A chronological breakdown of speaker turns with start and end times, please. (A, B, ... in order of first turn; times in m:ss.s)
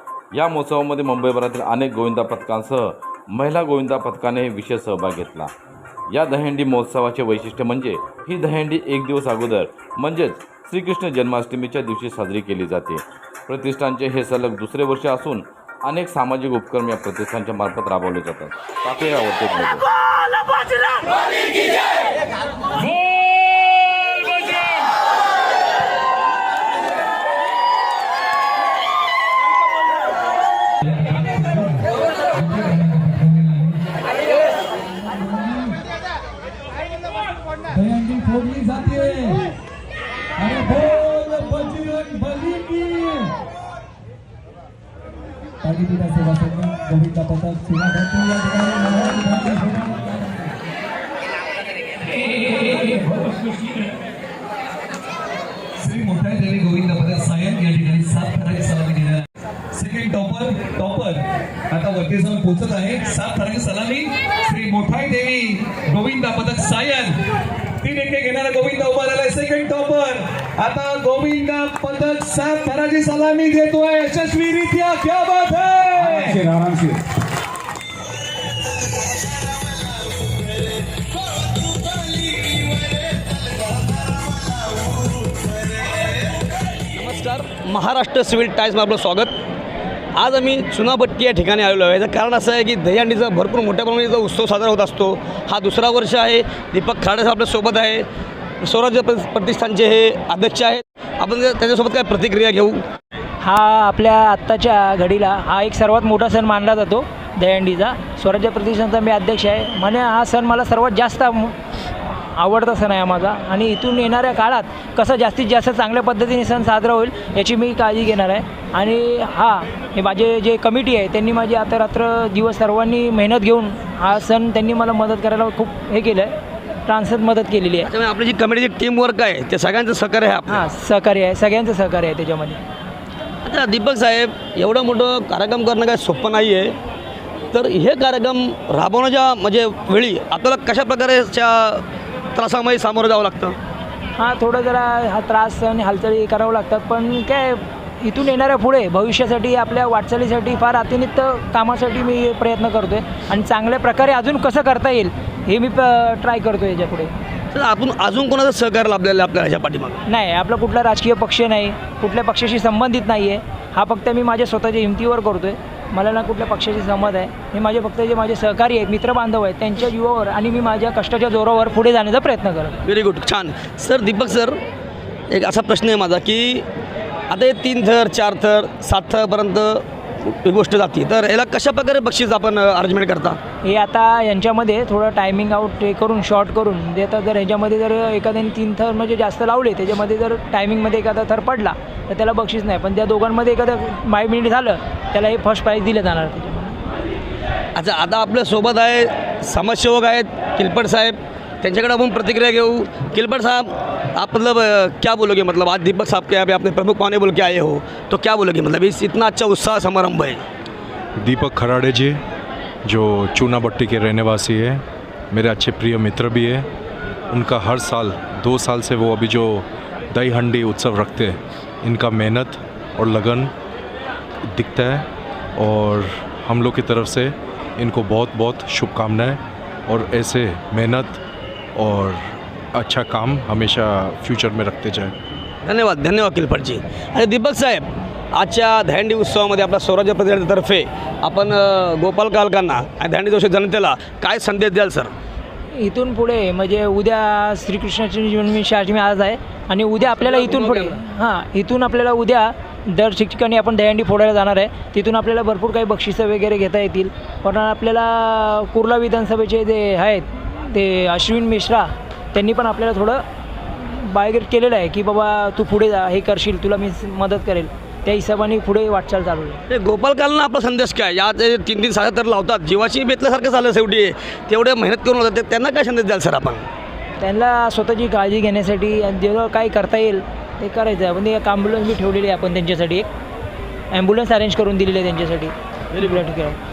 0:00.3-0:05.5 A
0:06.1-0:19.9 A
0:30.8-0:33.8 B
0:35.2-0:35.7 B
0:37.7-0:39.4 B
0:40.4-0:43.3 B
0:45.6-0:50.5 B
0:52.9-0:53.2 B
0:55.8-1:07.2 B
1:07.8-1:16.8 B
1:26.9-1:29.3 C
1:30.1-1:38.0 C
1:38.6-1:42.8 C
1:43.4-2:06.3 D
2:06.8-2:07.9 D
2:07.8-2:10.6 C
2:10.5-2:12.6 D
2:13.4-2:16.7 C
2:17.5-2:21.8 C
2:22.3-2:23.6 C
2:24.2-2:37.1 D
2:37.5-2:40.0 C
2:40.1-2:52.8 D
2:52.8-2:54.6 C
2:55.3-2:56.6 C
2:57.3-3:03.4 C
3:03.6-3:16.8 D
3:17.7-3:30.4 C
3:31.2-3:32.2 E
3:32.8-3:36.7 E
3:37.3-3:43.5 E
3:44.5-3:51.2 E
3:51.7-3:52.2 E
3:52.7-3:55.1 E
3:55.6-4:05.1 C
4:05.7-4:29.6 D
4:10.2-4:11.0 C
4:29.7-4:36.6 C
4:37.2-4:43.1 D
4:43.9-4:46.6 D